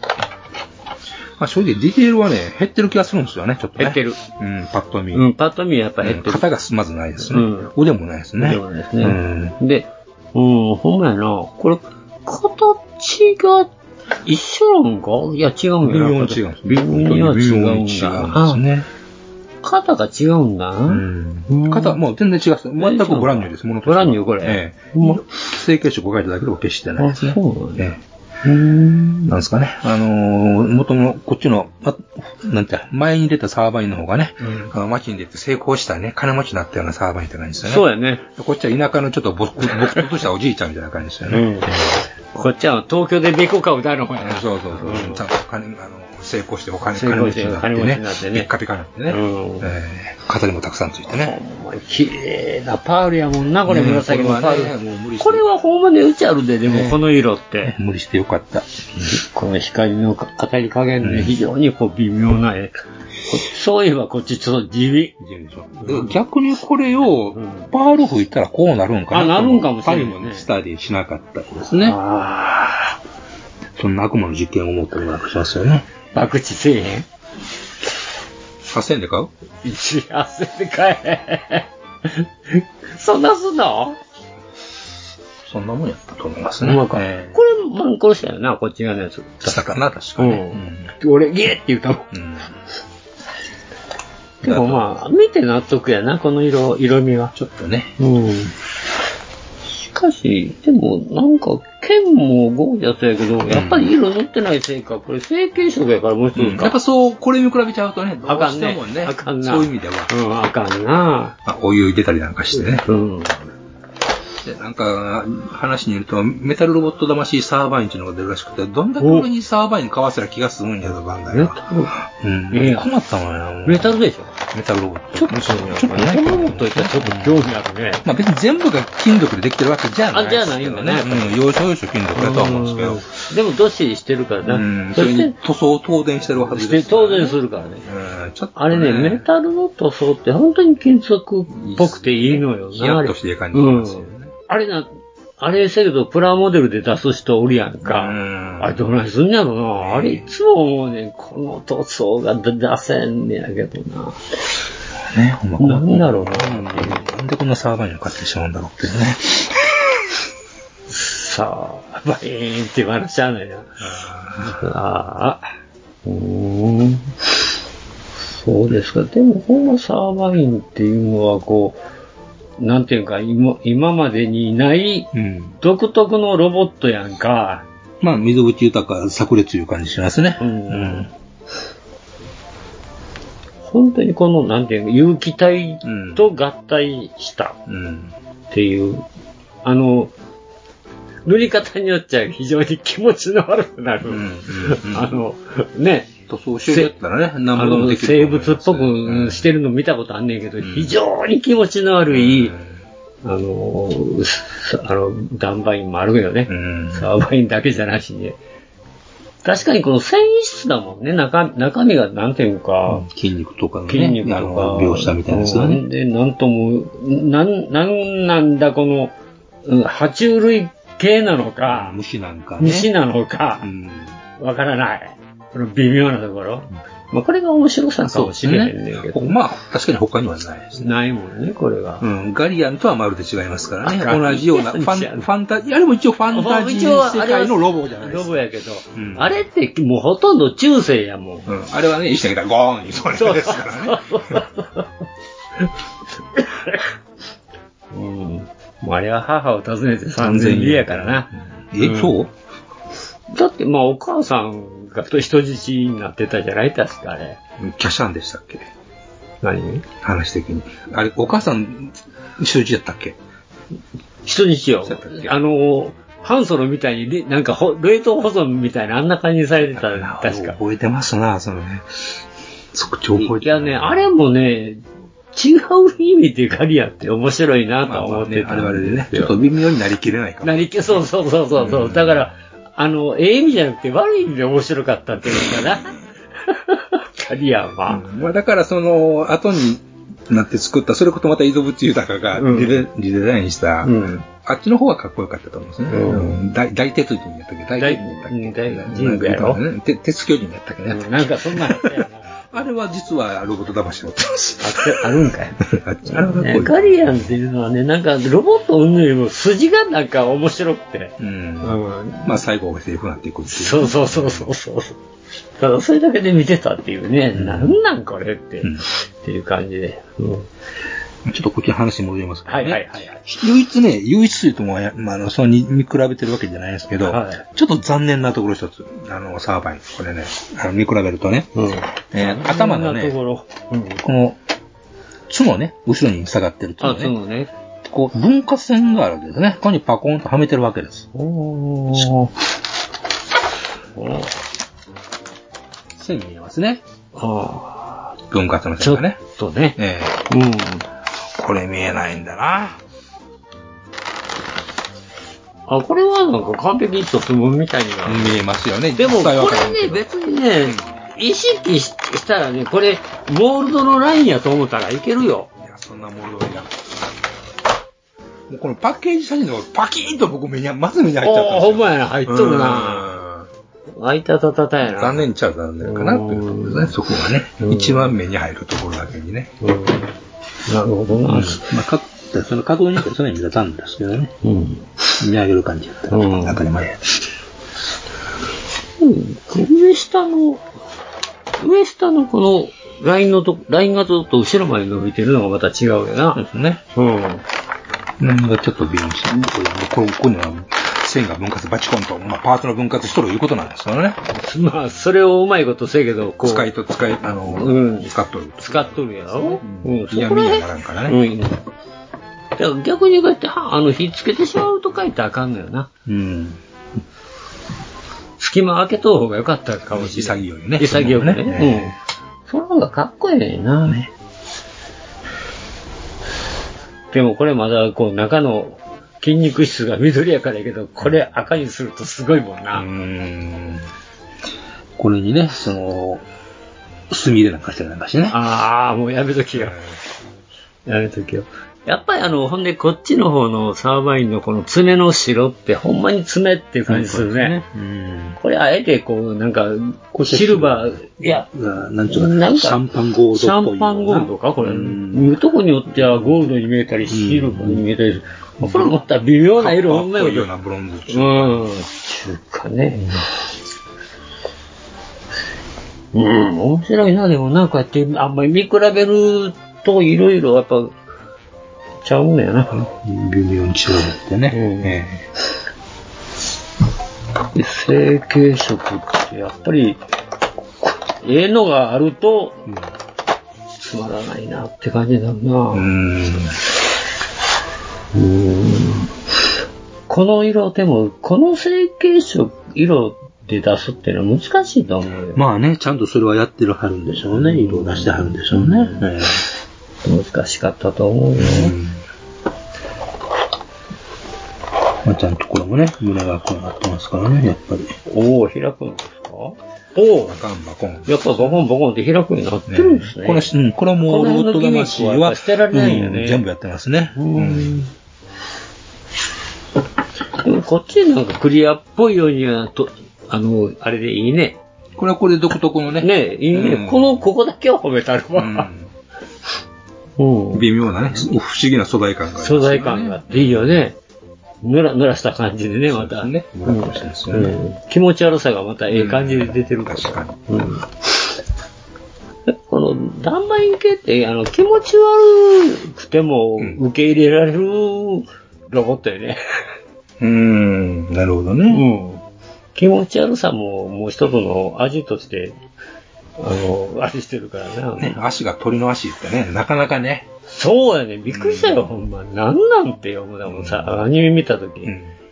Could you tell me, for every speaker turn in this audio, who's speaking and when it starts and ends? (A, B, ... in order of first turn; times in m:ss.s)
0:01.4-0:05.3 A
0:03.8-0:04.2 B
0:05.1-0:06.5 B
0:06.0-0:09.6 A
0:07.2-0:07.7 B
0:08.4-0:13.7 B
0:14.2-0:18.6 B
0:15.8-0:18.9 A
0:19.6-0:22.0 B
0:20.9-0:28.0 A
0:22.8-0:25.2 B
0:27.0-0:27.8 B
0:28.4-0:29.4 B
0:29.3-0:42.0 A
0:37.6-0:38.2 B
0:39.7-0:40.0 B
0:41.3-0:45.2 B
0:44.2-0:51.4 A
0:46.9-0:48.5 B
0:49.1-0:49.7 B
0:51.2-0:57.8 B
0:53.7-0:55.5 A
0:56.7-0:57.0 A
0:57.6-0:58.7 A
0:59.0-1:02.8 B
1:01.0-1:01.4 A
1:03.3-1:05.1 B
1:05.2-1:12.0 A
1:05.8-1:06.2 B
1:07.4-1:07.7 B
1:09.1-1:10.5 B
1:11.8-1:13.0 B
1:13.8-1:15.9 A
1:16.1-1:17.1 B
1:18.7-1:19.3 A
1:19.6-1:24.0 B
1:25.4-1:27.4 A
1:26.6-1:32.1 B
1:29.4-1:30.9 A
1:32.1-1:32.5 A
1:34.4-1:37.3 B
1:34.4-1:34.8 A
1:37.4-1:37.9 A
1:38.0-1:38.5 B
1:39.7-1:46.8 B
1:43.5-1:43.9 A
1:46.4-1:50.1 A
1:48.3-1:51.4 B
1:51.4-1:52.9 A
1:52.6-1:53.4 B
1:54.4-2:07.5 A
1:59.0-1:59.3 B
2:01.3-2:01.9 B
2:02.5-2:02.9 B
2:03.6-2:04.3 B
2:05.2-2:08.0 B
2:08.0-2:13.1 A
2:10.1-2:11.4 B
2:12.2-2:15.4 B
2:14.4-2:19.3 A
2:16.5-2:17.8 B
2:18.6-2:24.9 B
2:21.5-2:24.3 A
2:25.4-2:34.2 B
2:27.8-2:28.8 A
2:29.8-2:30.3 A
2:35.0-2:40.0 A
2:35.6-2:37.0 B
2:40.9-2:43.8 B
2:43.8-2:44.7 A
2:44.4-2:45.5 B
2:46.0-2:47.1 B
2:48.3-2:51.8 B
2:52.6-2:57.7 B
2:55.1-2:55.6 A
2:58.0-3:01.1 A
3:00.4-3:01.1 B
3:03.6-3:07.6 B
3:05.8-3:06.2 A
3:07.7-3:08.1 A
3:08.5-3:09.0 B
3:09.6-3:10.1 B
3:11.3-3:16.1 B
3:14.1-3:15.2 A
3:16.3-3:19.5 A
3:16.7-3:16.9 B
3:17.5-3:22.6 B
3:20.6-3:21.0 A
3:22.1-3:22.8 A
3:23.2-3:28.4 B
3:26.5-3:27.1 A
3:29.4-3:33.1 B
3:32.9-3:35.8 A
3:33.9-3:39.1 B
3:39.6-3:42.0 B
3:41.7-3:42.9 A
3:42.6-3:43.7 B
3:43.6-3:44.2 A
3:44.4-3:49.4 B
3:48.0-3:50.9 A
3:50.8-3:52.0 B
3:52.0-3:58.4 A
3:53.8-3:55.2 B
3:56.3-4:01.5 B
3:58.9-3:59.3 A
4:01.5-4:04.4 A
4:03.2-4:04.9 B
4:06.4-4:06.8 B
4:07.9-4:12.1 B
4:10.2-4:12.3 A
4:13.3-4:17.4 B
4:17.6-4:18.7 A
4:19.4-4:19.8 B
4:20.0-4:23.2 A
4:24.2-4:30.6 B
4:24.8-4:25.3 A
4:29.7-4:31.9 A
4:32.7-4:34.1 A
4:33.2-4:34.8 B
4:35.3-4:39.5 B
4:37.8-4:41.0 A
4:40.4-4:45.9 B
4:41.6-4:42.2 A
4:45.3-4:45.7 A
4:46.5-4:48.1 B
4:47.8-5:07.3 A
4:52.4-4:52.9 B
4:53.8-4:54.3 B
4:55.9-4:56.4 B
4:57.8-4:59.6 B
5:00.9-5:02.3 B
5:04.6-5:12.4 B
5:11.2-5:14.5 A
5:13.5-5:15.0 B
5:15.6-5:20.5 B
5:17.4-5:17.8 A
5:21.2-5:31.5 A
5:22.5-5:23.2 B
5:27.0-5:27.4 B
5:31.6-5:34.0 B
5:32.1-5:33.2 A
5:34.0-5:34.4 A
5:35.3-5:37.2 A
5:36.8-5:37.5 B
5:37.8-5:41.1 A
5:41.1-5:42.3 B
5:44.0-5:44.3 B
5:46.0-5:46.8 A
5:47.2-5:48.2 B
5:48.3-5:49.2 A
5:48.8-5:49.8 B
5:49.8-5:50.3 A
5:50.3-5:50.9 B
5:51.4-5:52.8 A
5:55.7-5:58.4 B
5:58.0-6:00.0 A
5:59.0-6:05.5 B
6:00.6-6:01.0 A
6:05.6-6:06.7 A
6:08.5-6:13.5 A
6:11.2-6:13.1 B
6:14.0-6:15.3 B
6:14.8-6:19.6 A
6:15.8-6:16.9 B
6:17.6-6:18.1 B
6:19.6-6:20.1 B
6:20.7-6:21.7 B
6:21.2-6:24.4 A
6:24.4-6:24.9 B
6:25.2-6:27.3 A
6:26.1-6:26.6 B
6:29.0-6:30.6 B
6:31.6-6:36.4 B
6:36.4-6:36.8 A
6:36.9-6:37.4 B
6:38.2-6:44.2 A
6:44.3-6:46.7 B
6:46.4-6:51.2 A
6:47.5-6:51.6 B
6:52.6-6:55.9 B
6:56.1-6:56.6 A
6:58.4-7:02.0 B
6:59.9-7:02.0 A
7:02.5-7:04.0 B
7:03.8-7:04.1 A
7:07.1-7:12.9 B
7:12.7-7:13.9 A
7:15.0-7:16.3 A
7:17.1-7:18.4 A
7:18.3-7:19.8 B
7:19.5-7:20.0 A
7:20.9-7:27.6 B
7:26.9-7:28.4 A
7:28.4-7:31.5 B
7:30.1-7:35.3 A
7:32.1-7:32.8 B
7:33.3-7:40.5 B
7:35.9-7:36.4 A
7:37.1-7:37.8 A
7:38.6-7:39.0 A
7:39.6-7:41.7 A
7:41.1-7:43.3 B
7:46.1-7:50.9 B
7:52.0-7:52.8 B
7:52.7-7:55.3 A
7:54.5-7:55.0 B
7:57.5-8:00.0 B
8:00.8-8:02.6 B
8:03.8-8:05.9 B
8:05.7-8:06.6 A
8:08.1-8:09.1 B
8:10.1-8:15.4 B
8:15.4-8:19.4 A
8:17.4-8:19.1 B
8:20.0-8:21.8 B
8:21.4-8:22.0 A
8:25.0-8:28.0 A
8:28.1-8:30.4 B
8:30.2-8:31.6 A
8:31.1-8:36.4 B
8:32.7-8:37.8 A
8:37.2-8:37.9 B
8:40.4-8:44.6 B
8:45.0-8:47.2 A
8:46.0-8:48.7 B
8:48.4-8:48.9 A
8:50.2-8:50.7 B
8:50.5-8:53.9 A
8:52.4-8:54.0 B
8:54.6-9:00.9 B
8:55.9-8:57.6 A
8:58.9-9:00.6 A
9:02.5-9:09.4 B
9:10.2-9:11.8 A
9:11.7-9:12.2 B
9:12.8-9:15.6 B
9:16.4-9:18.2 B
9:18.0-9:20.3 A
9:20.5-9:24.9 B
9:21.3-9:21.9 A
9:23.5-9:24.0 A
9:24.8-9:25.1 A